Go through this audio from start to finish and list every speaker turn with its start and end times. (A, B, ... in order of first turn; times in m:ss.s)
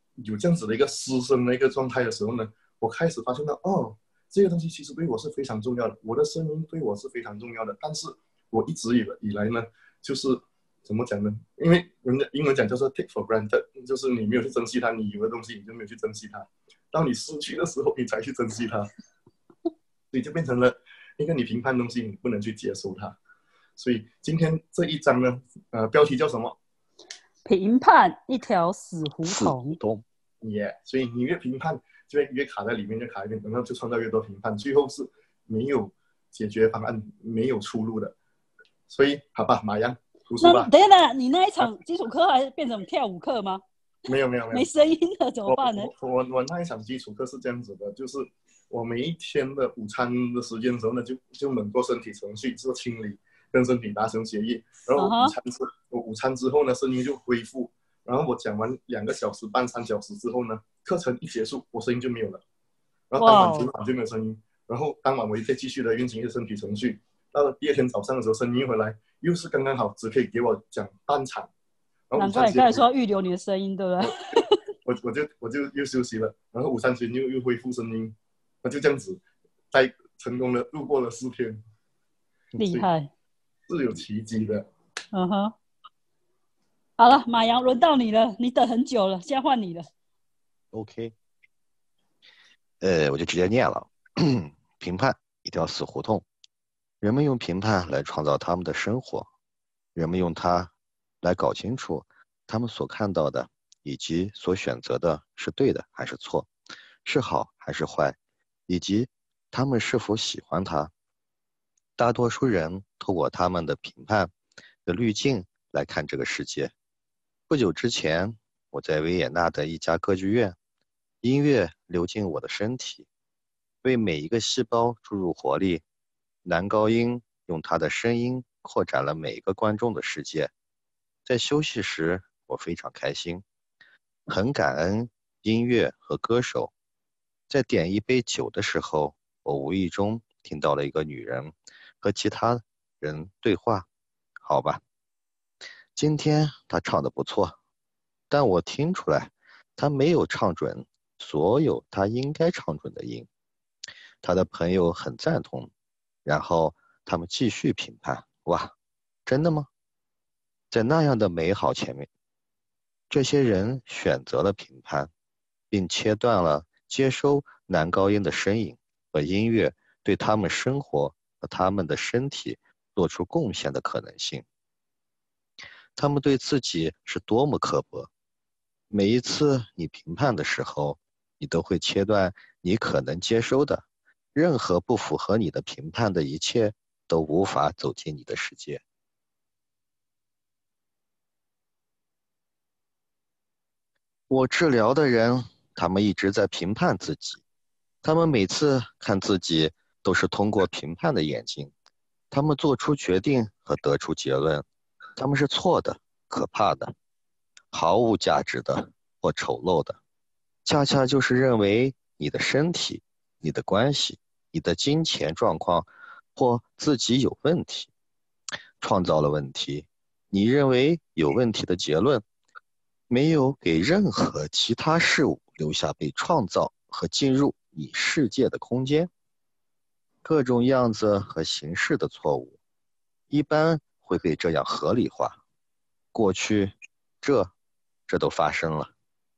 0:00.2-0:18.9 A
0:20.1-0:23.2 A
0:23.8-0:26.6 A
0:27.4-0:29.8 B
0:29.2-0:30.0 C
0:30.4-0:38.2 A
0:38.9-0:40.7 A
0:40.4-0:43.6 B
0:44.1-0:44.7 A
0:44.5-0:45.9 B
0:45.5-1:02.4 A
0:55.0-0:55.4 B
1:03.1-1:11.5 A
1:03.2-1:03.7 B
1:12.1-1:12.8 A
1:12.2-1:14.6 B
1:14.8-1:19.2 A
1:19.7-1:21.6 A
1:22.6-1:22.9 A
1:22.6-1:23.1 B
1:23.7-1:24.7 A
1:25.1-1:25.5 B
1:27.0-1:29.9 B
1:30.7-1:31.2 C
1:32.8-1:36.2 C
1:37.0-1:39.3 C
1:40.0-1:46.5 C
1:47.0-1:48.2 C
1:48.7-1:50.9 C
1:52.0-1:54.3 C
1:54.9-1:56.7 C
1:57.5-2:00.6 C
2:01.2-2:03.1 C
2:03.8-2:05.8 C
2:06.4-2:10.5 C
2:11.2-2:13.4 C
2:14.3-2:16.7 C
2:17.5-2:23.9 C
2:24.4-2:24.8 C
2:26.0-2:27.6 C
2:28.3-2:33.3 C
2:34.2-2:35.7 C
2:36.2-2:38.7 C
2:39.3-2:39.7 C
2:40.7-2:42.1 C
2:43.1-2:45.1 C
2:45.7-2:54.4 C
2:56.0-2:58.1 C
2:58.9-3:08.8 C
3:14.3-3:17.4 C
3:18.0-3:21.7 C
3:22.3-3:24.6 C
3:25.2-3:26.9 C
3:27.7-3:30.0 C
3:30.6-3:37.9 C
3:38.8-3:42.2 C
3:43.1-3:49.1 C
3:50.2-3:52.6 C
3:53.3-3:55.4 C
3:56.1-3:57.5 C
3:58.1-3:58.9 C